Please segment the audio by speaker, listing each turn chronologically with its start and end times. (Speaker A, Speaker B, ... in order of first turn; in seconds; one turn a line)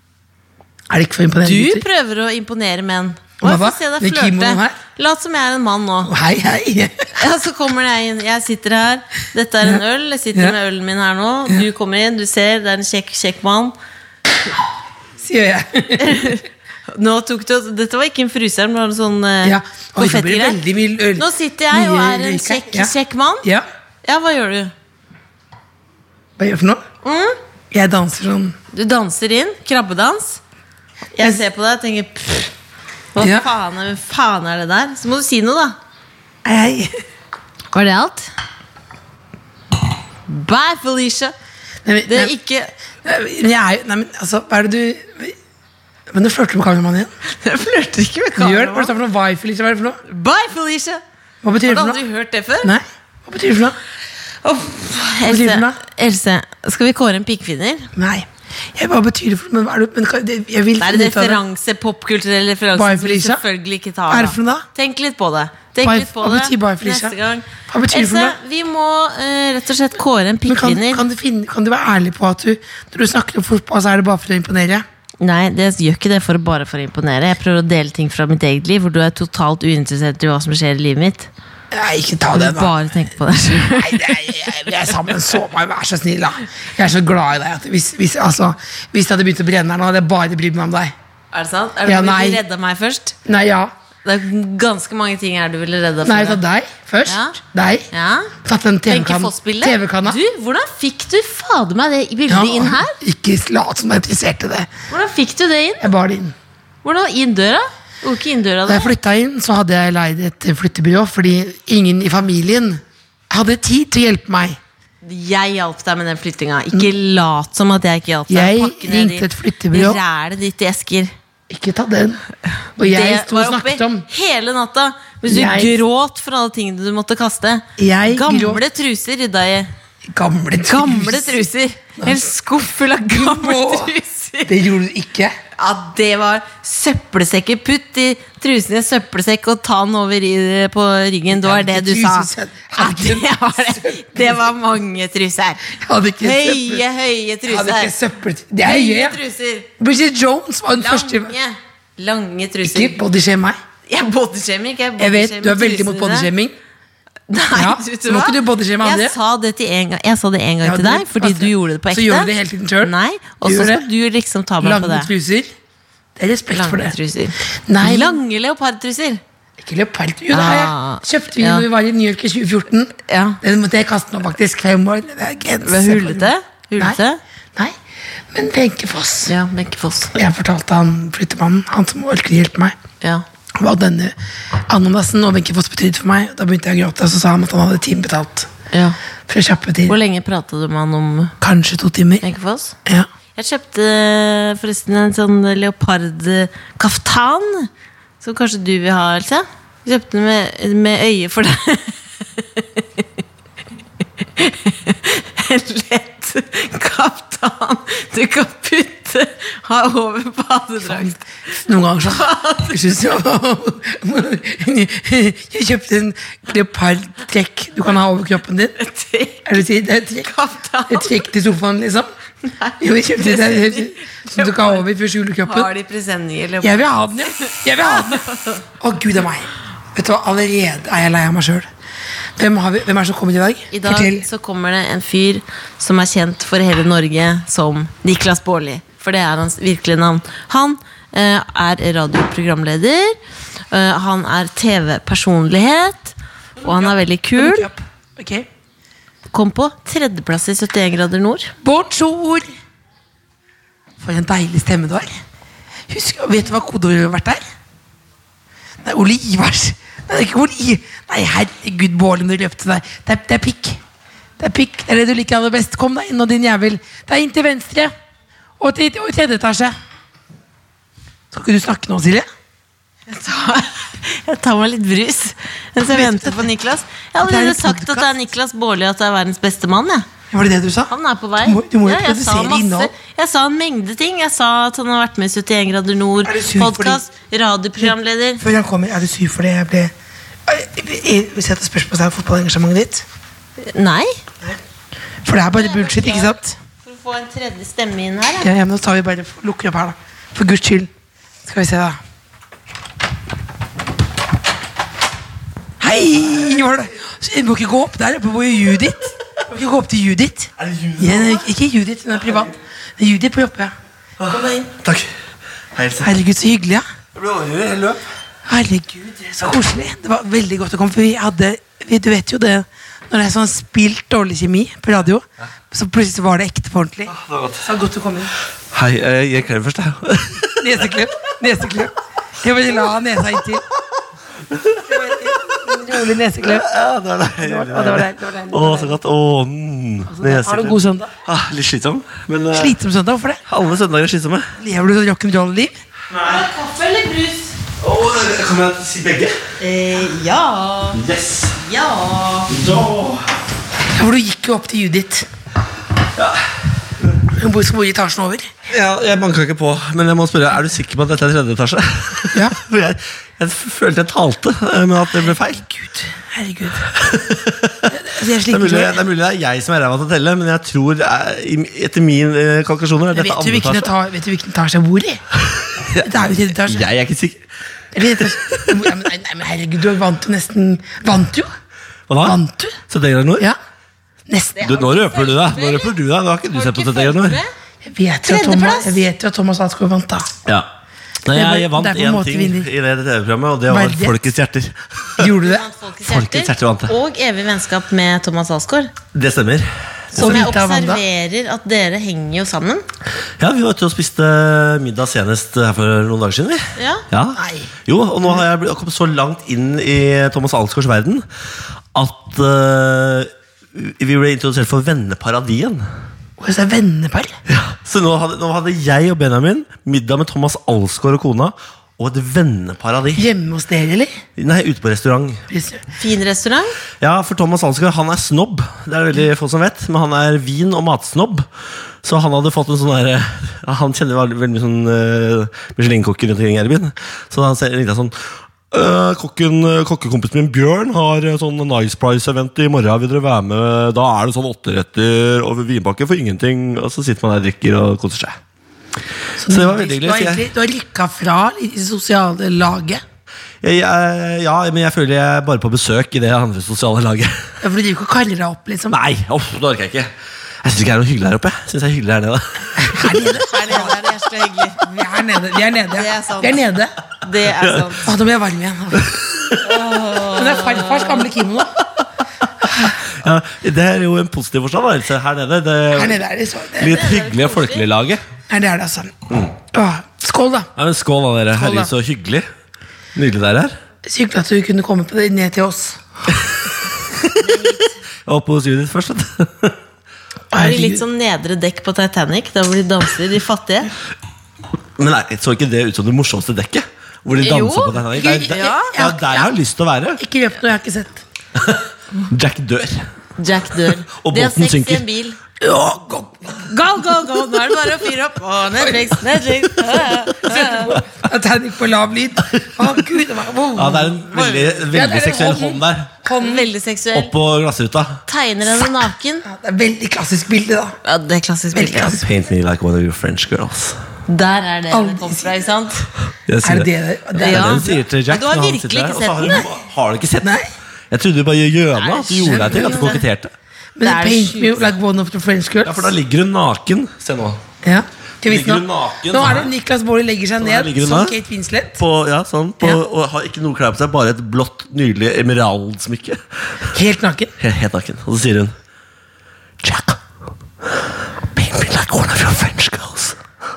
Speaker A: 0.9-1.9
Speaker B: 1.4-6.1
Speaker A: 3.4-4.8
Speaker A: 6.0-7.1
Speaker B: 7.2-13.8
Speaker A: 15.2-16.4
Speaker B: 16.0-20.6
Speaker A: 19.4-23.6
Speaker B: 21.2-23.5
Speaker B: 24.0-24.7
Speaker A: 26.4-26.8
Speaker B: 27.0-27.4
Speaker A: 27.7-28.6
Speaker B: 28.7-30.4
Speaker B: 31.1-32.5
Speaker B: 33.1-35.8
Speaker A: 33.2-33.5
Speaker A: 36.5-36.9
Speaker B: 37.7-38.3
Speaker B: 40.3-41.3
Speaker A: 41.9-42.4
Speaker B: 42.1-42.7
Speaker A: 43.0-45.4
Speaker A: 46.1-47.1
Speaker B: 47.3-48.9
Speaker A: 48.4-50.0
Speaker B: 50.1-51.0
Speaker A: 51.4-52.0
Speaker B: 51.6-52.7
Speaker A: 52.6-53.8
Speaker B: 54.4-57.9
Speaker A: 55.2-55.8
Speaker A: 58.0-61.4
Speaker B: 60.8-71.1
Speaker A: 62.7-63.4
Speaker A: 64.1-64.7
Speaker A: 65.8-68.4
Speaker A: 70.5-74.8
Speaker B: 75.2-81.3
Speaker A: 81.7-82.7
Speaker B: 82.3-84.9
Speaker A: 83.7-90.9
Speaker B: 91.3-93.2
Speaker A: 91.9-92.4
Speaker A: 93.3-93.7
Speaker B: 94.0-96.4
Speaker A: 96.0-97.9
Speaker B: 97.1-97.4
Speaker B: 97.9-98.3
Speaker A: 98.4-100.2
Speaker B: 98.9-103.0
Speaker A: 102.3-104.7
Speaker B: 104.9-105.9
Speaker A: 105.8-106.3
Speaker B: 106.8-108.9
Speaker A: 108.7-114.6
Speaker B: 115.0-121.1
Speaker A: 118.3-120.0
Speaker A: 121.5-122.2
Speaker A: 122.8-124.1
Speaker B: 122.8-129.7
Speaker A: 125.3-125.8
Speaker A: 127.8-128.7
Speaker A: 130.1-131.5
Speaker B: 130.6-134.6
Speaker A: 132.0-132.3
Speaker A: 133.0-133.9
Speaker A: 134.4-135.4
Speaker B: 135.6-145.7
Speaker A: 141.3-144.5
Speaker A: 145.7-146.9
Speaker B: 146.2-147.9
Speaker A: 147.5-149.2
Speaker B: 148.6-149.7
Speaker A: 149.8-151.4
Speaker B: 150.8-153.0
Speaker A: 152.6-153.6
Speaker B: 153.9-156.3
Speaker A: 155.0-156.6
Speaker B: 157.3-162.3
Speaker A: 157.5-159.2
Speaker A: 160.6-163.9
Speaker B: 162.8-165.1
Speaker A: 164.6-165.5
Speaker A: 166.2-167.0
Speaker B: 166.5-169.2
Speaker A: 167.7-168.2
Speaker A: 169.6-177.0
Speaker B: 170.3-171.7
Speaker B: 173.1-173.4
Speaker B: 175.7-177.2
Speaker A: 178.3-179.3
Speaker B: 179.3-180.2
Speaker A: 180.2-182.8
Speaker A: 183.6-184.2
Speaker A: 184.7-188.5
Speaker B: 188.7-189.0
Speaker A: 189.3-190.0
Speaker B: 189.9-191.3
Speaker A: 191.4-192.2
Speaker B: 192.2-192.8
Speaker B: 193.3-197.7
Speaker B: 198.2-203.1
Speaker B: 204.2-211.2
Speaker A: 210.8-218.8
Speaker B: 212.1-212.8
Speaker B: 218.8-219.6
Speaker A: 219.5-220.3
Speaker B: 220.2-221.2
Speaker A: 220.9-222.1
Speaker B: 222.4-224.9
Speaker A: 222.8-225.7
Speaker B: 225.4-228.6
Speaker A: 226.6-231.7
Speaker A: 232.4-234.3
Speaker B: 233.7-243.2
Speaker B: 243.7-247.7
Speaker A: 246.6-248.5
Speaker B: 249.3-251.5
Speaker A: 251.6-252.5
Speaker A: 254.0-255.2
Speaker A: 255.9-257.4
Speaker A: 258.8-263.8
Speaker A: 264.4-267.9
Speaker A: 268.6-269.8
Speaker A: 271.3-272.3
Speaker B: 273.1-280.1
Speaker A: 275.9-276.5
Speaker A: 277.2-278.2
Speaker A: 280.3-282.9
Speaker B: 280.9-288.4
Speaker A: 286.2-287.0
Speaker A: 287.8-289.9
Speaker A: 290.5-293.1
Speaker B: 293.6-294.2
Speaker A: 295.2-296.6
Speaker B: 295.5-298.5
Speaker A: 298.4-300.9
Speaker A: 301.4-302.0
Speaker A: 305.8-313.7
Speaker C: 310.6-311.4
Speaker C: 314.2-315.1
Speaker A: 314.3-314.7
Speaker C: 315.7-316.1
Speaker A: 316.0-316.9
Speaker C: 317.1-318.0
Speaker A: 318.5-328.3
Speaker C: 327.1-327.7
Speaker C: 328.7-330.7
Speaker A: 330.6-333.6
Speaker C: 334.5-335.6
Speaker A: 334.8-336.7
Speaker C: 336.4-342.8
Speaker A: 337.4-339.0
Speaker A: 340.1-341.1
Speaker A: 342.5-343.4
Speaker C: 343.5-344.5
Speaker A: 344.6-345.8
Speaker C: 346.1-346.4
Speaker B: 346.2-347.6
Speaker C: 347.8-349.4
Speaker B: 349.6-351.0
Speaker C: 350.9-351.6
Speaker B: 351.5-352.5
Speaker C: 352.5-353.3
Speaker A: 353.9-355.3
Speaker A: 357.3-358.5
Speaker C: 358.7-365.6
Speaker A: 365.3-366.9
Speaker C: 366.9-367.9
Speaker A: 367.9-369.0
Speaker C: 368.5-373.9
Speaker A: 373.1-375.2
Speaker C: 375.4-377.4
Speaker A: 376.0-376.9
Speaker A: 377.9-381.5
Speaker C: 378.2-378.9
Speaker C: 382.1-382.4
Speaker A: 382.2-382.8
Speaker C: 382.9-383.5
Speaker A: 384.3-384.8
Speaker B: 384.6-385.9
Speaker C: 384.6-387.4
Speaker B: 386.5-387.5
Speaker A: 387.8-390.3
Speaker B: 388.3-389.0
Speaker C: 391.2-395.3
Speaker A: 391.3-392.7
Speaker A: 393.7-394.2
Speaker A: 395.2-395.7
Speaker B: 395.4-398.9
Speaker C: 396.1-396.9
Speaker C: 399.1-400.5
Speaker B: 400.1-402.9
Speaker A: 400.1-401.0
Speaker C: 403.4-411.2
Speaker B: 406.8-407.0
Speaker A: 407.4-407.7
Speaker C: 411.9-415.9
Speaker A: 416.4-417.4
Speaker C: 417.5-423.2
Speaker A: 423.2-424.2
Speaker C: 424.4-425.4
Speaker A: 425.5-425.8
Speaker B: 426.0-426.8
Speaker C: 427.0-431.5
Speaker C: 432.0-448.4
Speaker A: 449.4-453.0
Speaker C: 449.5-450.4
Speaker C: 453.6-457.5
Speaker A: 457.6-459.0
Speaker C: 458.9-460.1
Speaker C: 460.6-463.4
Speaker A: 462.8-464.0
Speaker B: 463.3-464.8
Speaker A: 464.8-466.9
Speaker B: 465.9-466.7
Speaker B: 467.2-468.1
Speaker C: 467.5-467.9
Speaker A: 468.0-469.1
Speaker C: 469.0-469.6
Speaker B: 469.6-471.3
Speaker A: 470.1-471.8
Speaker C: 472.9-476.2
Speaker A: 475.9-477.1
Speaker C: 476.8-478.2
Speaker B: 476.9-477.9
Speaker A: 478.5-479.1
Speaker A: 479.7-480.7
Speaker C: 480.8-482.5
Speaker A: 481.5-481.9
Speaker C: 483.1-483.8
Speaker A: 484.1-486.0
Speaker B: 487.4-487.9
Speaker C: 488.3-489.8
Speaker A: 490.5-491.0
Speaker B: 490.5-493.9
Speaker C: 495.0-500.2
Speaker B: 497.4-498.9
Speaker A: 498.1-499.5
Speaker A: 500.2-501.2
Speaker C: 501.6-503.1
Speaker B: 503.4-505.4
Speaker C: 504.1-505.0
Speaker A: 505.6-506.7
Speaker B: 506.7-511.0
Speaker A: 510.1-516.7
Speaker C: 513.8-516.1
Speaker B: 516.4-517.3
Speaker C: 517.1-518.2
Speaker B: 518.3-519.5
Speaker A: 519.5-521.0
Speaker B: 521.0-522.2
Speaker A: 521.8-522.3
Speaker C: 522.2-524.0
Speaker B: 524.3-526.1
Speaker A: 524.9-525.6
Speaker C: 526.5-530.6
Speaker A: 526.6-528.0
Speaker B: 527.4-529.7
Speaker A: 530.4-530.7
Speaker C: 531.1-533.5
Speaker B: 532.0-533.2
Speaker A: 532.4-533.2
Speaker A: 534.0-536.1
Speaker B: 534.0-534.9
Speaker C: 535.8-537.6
Speaker A: 537.8-542.0
Speaker C: 538.5-539.7
Speaker C: 540.6-541.4
Speaker C: 542.0-546.4
Speaker A: 546.9-547.5
Speaker C: 547.6-548.7
Speaker C: 549.8-550.2
Speaker C: 551.5-553.4